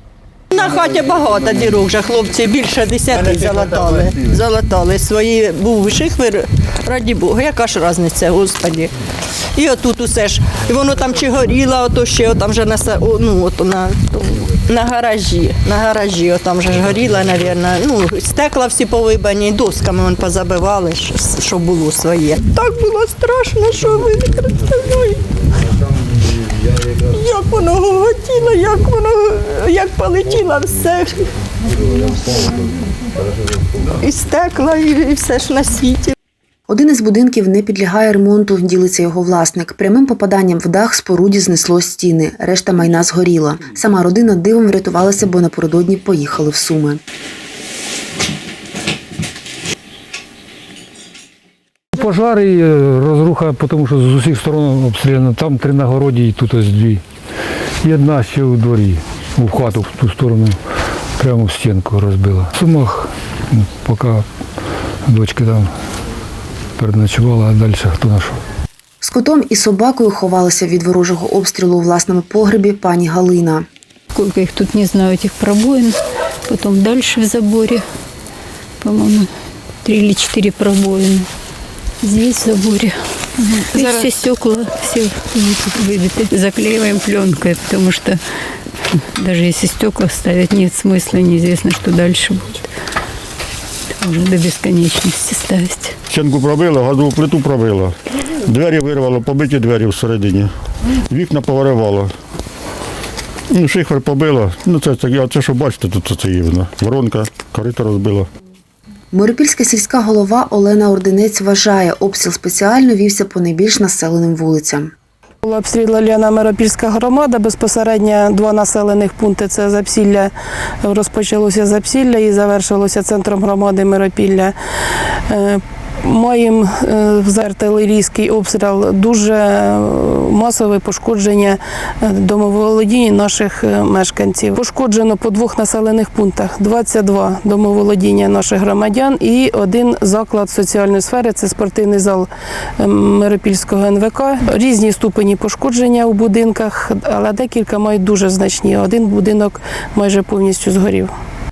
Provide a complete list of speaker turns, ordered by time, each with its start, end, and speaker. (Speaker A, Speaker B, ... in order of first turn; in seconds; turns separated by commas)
Speaker A: 0.5-8.9, Speaker A: 9.5-25.3, Speaker A: 26.9-31.3, Speaker A: 34.0-36.1, Speaker B: 36.7-47.0, Speaker C: 51.9-57.0, Speaker C: 57.8-60.6, Speaker C: 61.2-64.2, Speaker C: 65.0-65.7, Speaker C: 66.8-68.4, Speaker B: 69.0-73.7, Speaker D: 74.1-76.0, Speaker D: 76.5-77.8, Speaker D: 78.8-79.3, Speaker D: 79.8-81.3, Speaker D: 82.0-83.0, Speaker D: 83.5-88.2, Speaker D: 89.2-92.6, Speaker D: 94.0-95.9, Speaker E: 96.1-102.1, Speaker E: 103.5-108.3, Speaker B: 109.1-114.9, Speaker F: 115.4-120.3, Speaker F: 120.8-124.5, Speaker F: 125.3-151.1